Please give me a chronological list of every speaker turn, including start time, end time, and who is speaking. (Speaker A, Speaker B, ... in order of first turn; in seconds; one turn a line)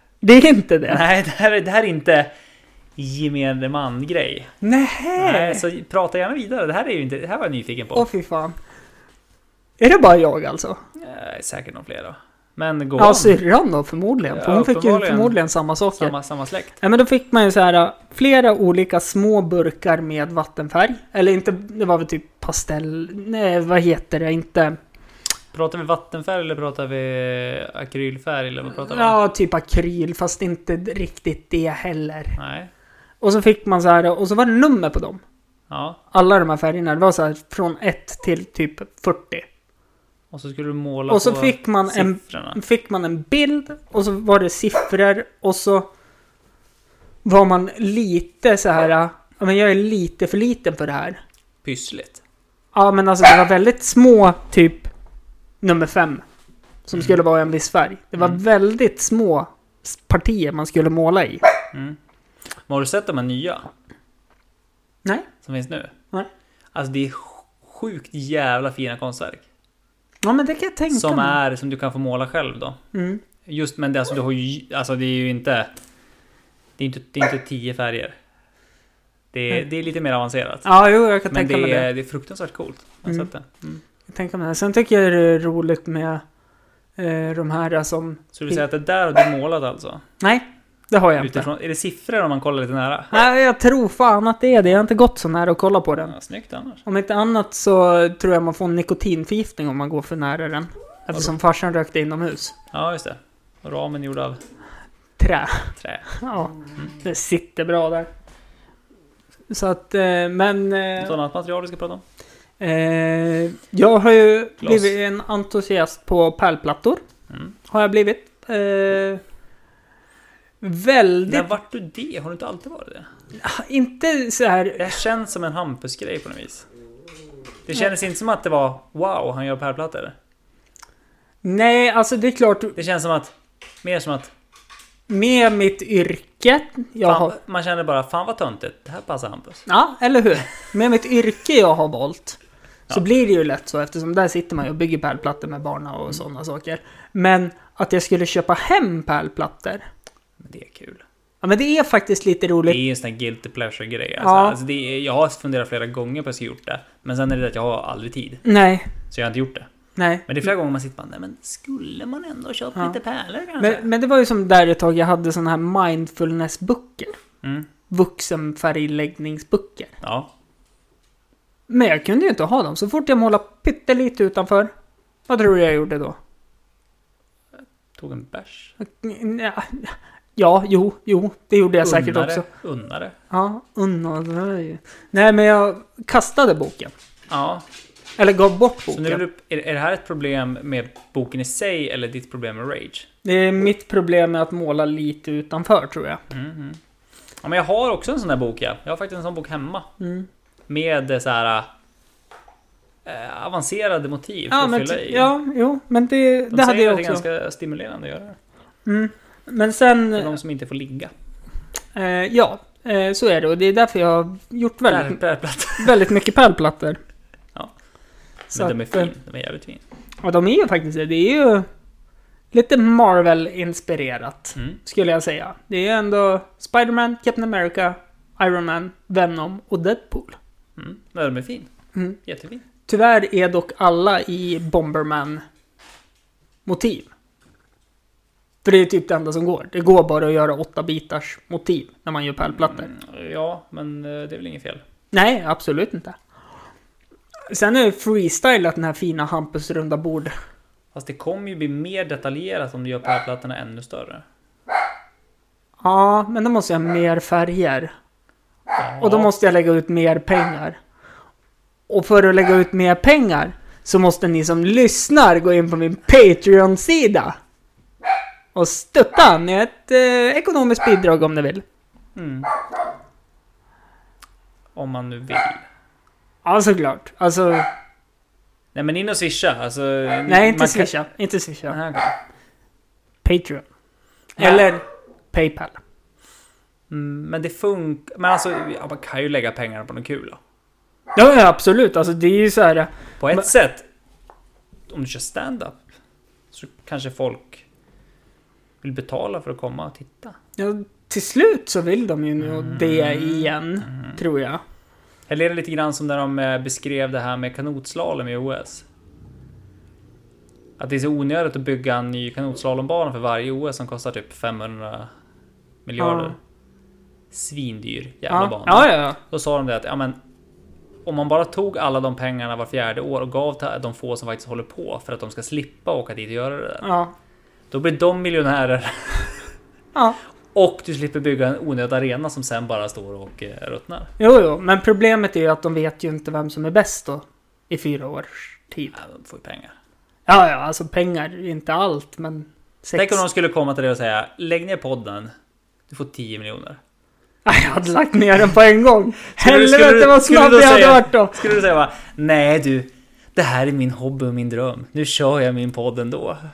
Speaker A: 0.2-1.0
Speaker B: 0.9-2.3
Speaker B: 3.0-4.5
Speaker A: 4.6-5.6
Speaker B: 5.2-8.1
Speaker A: 7.9-8.6
Speaker A: 9.8-10.8
Speaker B: 11.0-13.4
Speaker A: 13.0-16.1
Speaker B: 14.3-15.4
Speaker B: 15.9-16.8
Speaker A: 16.8-24.8
Speaker B: 25.5-29.2
Speaker A: 28.7-32.4
Speaker B: 32.4-32.7
Speaker A: 33.2-35.2
Speaker B: 35.7-36.0
Speaker A: 36.1-39.5
Speaker B: 40.3-42.6
Speaker A: 41.1-45.9
Speaker A: 47.2-51.2
Speaker B: 51.6-52.2
Speaker A: 52.7-54.9
Speaker A: 55.6-56.2
Speaker A: 56.9-61.4
Speaker B: 61.7-62.0
Speaker B: 62.7-63.7
Speaker B: 65.4-65.9
Speaker B: 66.7-69.4
Speaker A: 70.2-71.3
Speaker B: 70.9-72.8
Speaker A: 72.9-73.2
Speaker B: 73.5-75.7
Speaker B: 76.8-78.1
Speaker B: 79.3-80.7
Speaker A: 80.6-81.9
Speaker B: 81.3-83.8
Speaker A: 84.1-86.2
Speaker A: 87.0-88.3
Speaker B: 88.3-90.0
Speaker A: 90.2-91.5
Speaker B: 91.2-93.1
Speaker A: 93.1-96.1
Speaker B: 96.0-96.8
Speaker A: 96.8-102.5
Speaker B: 102.7-104.4
Speaker A: 105.2-108.1
Speaker B: 105.8-106.1
Speaker A: 109.5-111.2
Speaker B: 111.0-112.0
Speaker A: 112.6-117.0
Speaker B: 114.6-114.9
Speaker A: 117.7-119.2
Speaker A: 120.6-121.5
Speaker B: 121.3-123.1
Speaker A: 123.4-125.0
Speaker B: 124.8-126.7
Speaker B: 127.7-130.1
Speaker A: 131.4-132.8
Speaker B: 132.8-134.3
Speaker A: 135.1-137.3
Speaker B: 137.0-139.6
Speaker A: 139.7-142.4
Speaker A: 142.9-149.8
Speaker B: 150.4-151.0
Speaker A: 151.4-152.8
Speaker B: 152.7-158.4
Speaker A: 154.2-154.6
Speaker A: 158.4-158.9
Speaker B: 159.1-159.7
Speaker A: 159.9-160.2
Speaker B: 160.3-163.8
Speaker A: 163.6-167.2
Speaker B: 167.4-167.7
Speaker A: 167.9-170.0
Speaker B: 170.0-170.3
Speaker A: 171.7-174.7
Speaker A: 175.3-176.2
Speaker B: 177.9-178.7
Speaker A: 178.8-182.4
Speaker B: 181.8-183.1
Speaker A: 183.3-186.9
Speaker B: 187.3-187.6
Speaker A: 188.2-189.2
Speaker B: 188.9-193.1
Speaker A: 193.2-196.2
Speaker B: 196.3-196.8
Speaker B: 197.4-199.9
Speaker A: 200.0-200.3
Speaker B: 200.7-201.7
Speaker B: 203.0-205.3
Speaker A: 204.5-207.2
Speaker B: 206.5-208.4
Speaker A: 208.8-210.4
Speaker B: 210.2-211.1
Speaker A: 211.9-215.2
Speaker B: 214.9-216.1
Speaker A: 215.8-217.0
Speaker B: 218.5-219.8
Speaker A: 218.5-219.1
Speaker A: 220.2-221.7
Speaker A: 222.5-230.4
Speaker B: 230.8-231.7
Speaker B: 232.2-232.6
Speaker A: 232.9-235.4
Speaker A: 236.7-237.1
Speaker A: 238.6-242.9
Speaker B: 242.5-244.8
Speaker A: 245.1-246.2
Speaker A: 247.5-250.3
Speaker B: 250.9-254.2
Speaker A: 255.8-257.9
Speaker B: 258.8-259.3
Speaker A: 259.0-260.8
Speaker A: 261.9-267.4
Speaker A: 268.5-271.6
Speaker B: 272.1-272.5
Speaker B: 274.7-275.6
Speaker A: 276.4-277.7
Speaker B: 278.7-281.0
Speaker A: 280.3-281.8
Speaker B: 281.7-282.1
Speaker A: 283.2-283.6
Speaker B: 284.4-284.7
Speaker A: 284.4-285.8
Speaker B: 286.9-290.4
Speaker A: 291.1-293.5
Speaker B: 293.2-293.9
Speaker B: 294.9-295.8
Speaker B: 296.5-297.6
Speaker B: 298.8-300.4
Speaker A: 300.6-304.6
Speaker B: 302.4-304.2
Speaker B: 305.3-308.8
Speaker B: 310.8-315.1
Speaker B: 315.9-316.4
Speaker A: 316.0-316.3
Speaker B: 317.3-320.2
Speaker A: 318.3-319.2
Speaker B: 321.0-326.9
Speaker A: 326.8-327.1
Speaker B: 327.7-329.5
Speaker B: 330.5-334.1
Speaker A: 334.2-339.0
Speaker B: 338.9-339.7
Speaker A: 340.3-343.2
Speaker B: 342.9-345.3
Speaker B: 345.9-346.8
Speaker A: 347.4-351.4
Speaker B: 349.3-356.4